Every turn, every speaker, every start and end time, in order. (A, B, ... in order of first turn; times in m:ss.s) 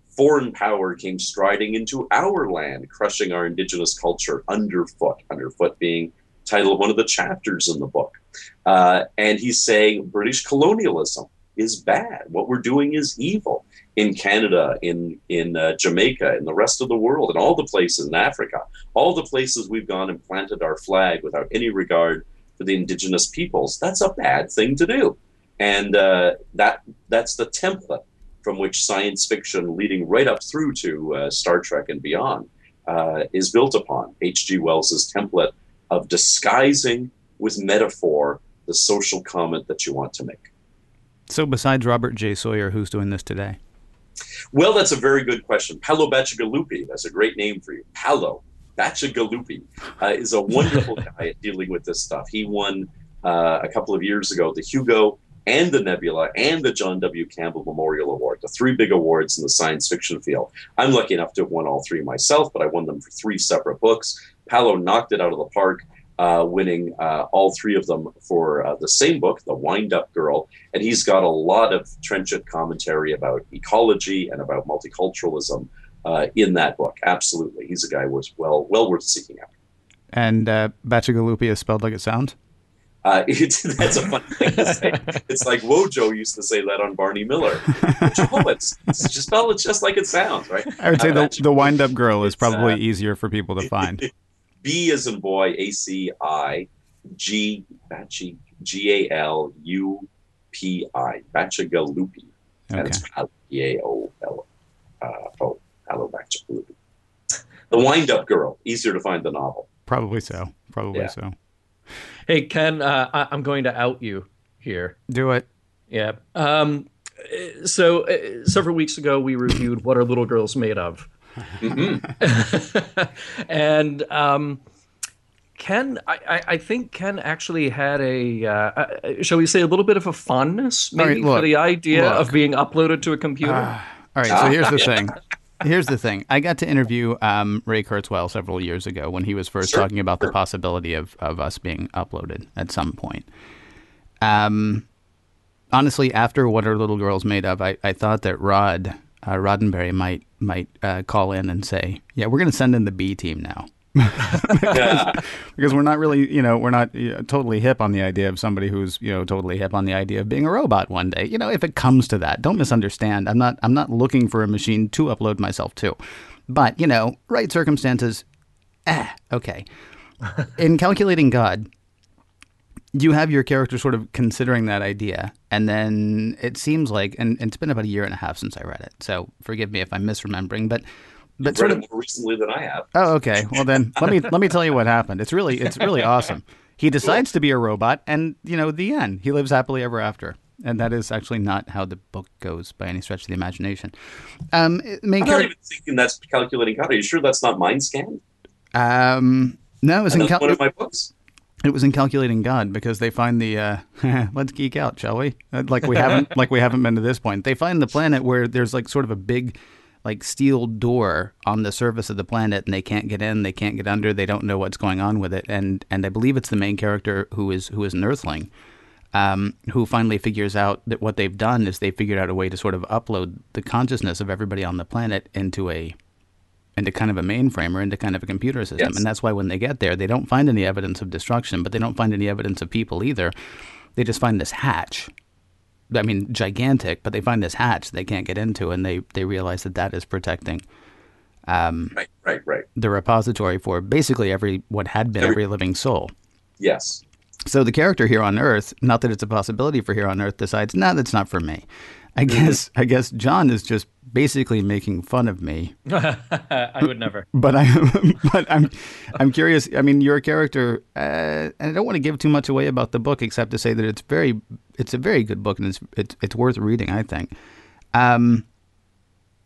0:00.2-0:40.5 A
0:41.3-0:43.6 B
0:44.5-1:19.5 A
1:20.1-1:22.4 B
1:23.0-1:31.7 A
1:24.6-1:25.0 C
1:30.8-1:34.1 B
1:32.2-1:32.8 A
1:34.6-1:44.4 A
1:42.7-1:43.0 B
1:45.0-1:46.7 A
1:47.7-1:49.7 A
1:49.9-1:51.3 B
1:52.3-1:55.0 C
1:55.1-1:55.5 B
1:55.9-2:01.1 C
2:01.6-2:02.1 A
2:02.2-2:04.6 C
2:05.6-2:13.7 C
2:11.0-2:12.3 B
2:13.4-2:23.3 B
2:14.3-2:15.1 A
2:24.2-2:24.9 B
2:25.7-2:46.0 B
2:34.7-2:35.2 A
2:46.5-2:48.2 B
2:48.9-2:49.6 B
2:50.5-2:51.7 B
2:52.9-3:00.8 B
3:01.4-3:01.8 B
3:01.4-3:03.1 A
3:03.0-3:13.9 B
3:14.5-3:15.5 B
3:15.2-3:18.2 A
3:18.7-3:20.6 B
3:20.1-3:21.1 A
3:21.6-3:38.5 B
3:39.1-3:46.0 B
3:46.8-3:53.3 B
3:54.0-3:55.1 B
3:55.9-4:00.6 B
4:01.5-4:02.0 B
4:02.0-4:02.7 A
4:02.8-4:06.1 B
4:06.6-4:07.0 A
4:07.5-4:15.8 B
4:12.3-4:12.5 A
4:15.9-4:17.3 C
4:17.3-4:27.3 B
4:27.9-4:28.4 B